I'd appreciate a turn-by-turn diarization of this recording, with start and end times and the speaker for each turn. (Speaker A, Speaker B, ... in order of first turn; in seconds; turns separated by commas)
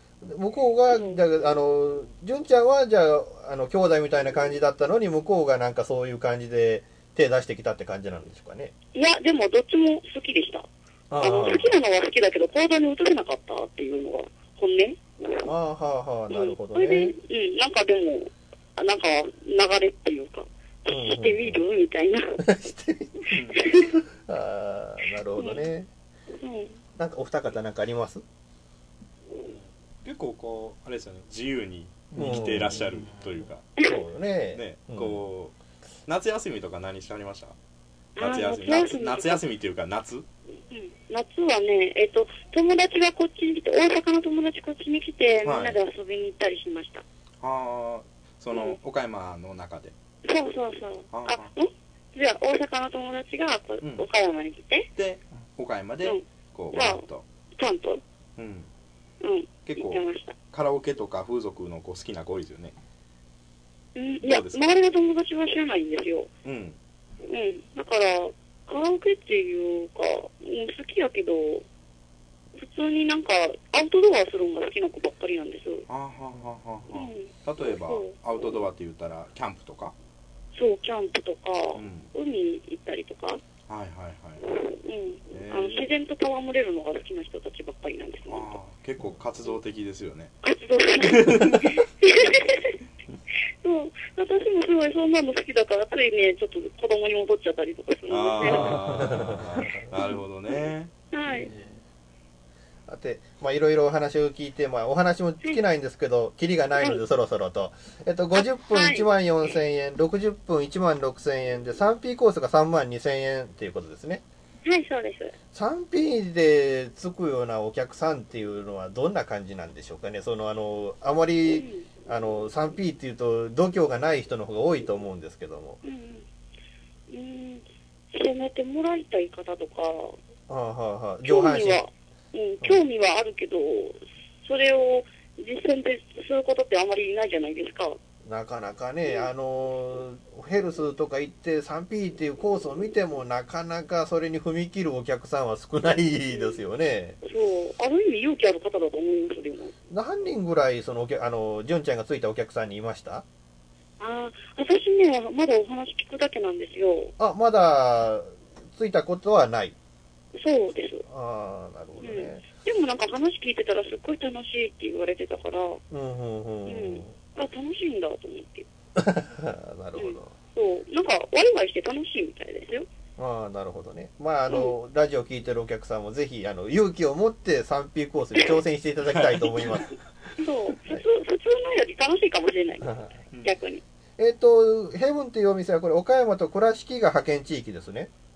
Speaker A: 0.2-8.7, Speaker B: 0.9-1.2, Speaker B: 8.9-10.7, Speaker A: 11.1-11.7, Speaker B: 11.2-15.4, Speaker A: 15.4-17.1, Speaker B: 16.3-22.4, Speaker A: 20.9-21.6, Speaker A: 22.4-25.9, Speaker C: 23.3-23.6, Speaker B: 25.4-25.6, Speaker B: 26.4-26.8, Speaker A: 27.0-28.2, Speaker C: 30.0-33.7, Speaker A: 32.1-32.9, Speaker A: 33.8-35.2, Speaker C: 34.5-35.5, Speaker C: 36.1-37.5, Speaker B: 38.1-39.4, Speaker C: 38.2-40.2, Speaker B: 40.7-47.0, Speaker C: 45.4-45.8, Speaker C: 47.4-49.9, Speaker B: 48.5-48.8, Speaker B: 50.2-54.9, Speaker C: 51.1-51.5, Speaker C: 55.0-57.2, Speaker B: 56.0-57.0, Speaker B: 57.6-58.0, Speaker C: 58.4-58.7, Speaker B: 59.2-60.3, Speaker C: 59.6-62.8, Speaker B: 64.0-66.3, Speaker C: 64.2-64.6, Speaker C: 66.4-66.8, Speaker B: 67.3-71.6, Speaker B: 72.5-75.8, Speaker C: 75.9-79.9, Speaker B: 76.9-78.1, Speaker B: 80.5-83.4, Speaker C: 81.7-82.1, Speaker C: 83.7-84.5, Speaker B: 84.7-88.5, Speaker C: 85.3-85.8, Speaker C: 88.3-90.3, Speaker B: 90.4-92.8, Speaker C: 91.0-91.8, Speaker B: 93.6-98.8, Speaker C: 98.1-100.9, Speaker A: 98.8-99.8, Speaker B: 101.1-101.5, Speaker A: 102.9-114.2, Speaker B: 108.3-109.0, Speaker B: 114.6-115.3, Speaker A: 115.5-125.8, Speaker B: 121.5-121.9, Speaker B: 125.8-126.2, Speaker B: 127.1-130.2, Speaker A: 130.5-131.8, Speaker B: 131.2-138.0, Speaker A: 138.2-147.2, Speaker B: 147.2-149.7, Speaker A: 149.9-153.2, Speaker B: 154.0-157.1, Speaker A: 157.2-159.8, Speaker B: 160.3-161.0, Speaker A: 161.1-162.4, Speaker B: 162.0-165.8, Speaker A: 165.9-167.1, Speaker B: 166.7-168.7, Speaker A: 168.9-170.3, Speaker B: 170.0-172.9, Speaker A: 173.2-179.9, Speaker C: 179.1-179.7, Speaker B: 180.4-183.8, Speaker A: 182.8-183.1, Speaker A: 184.2-188.1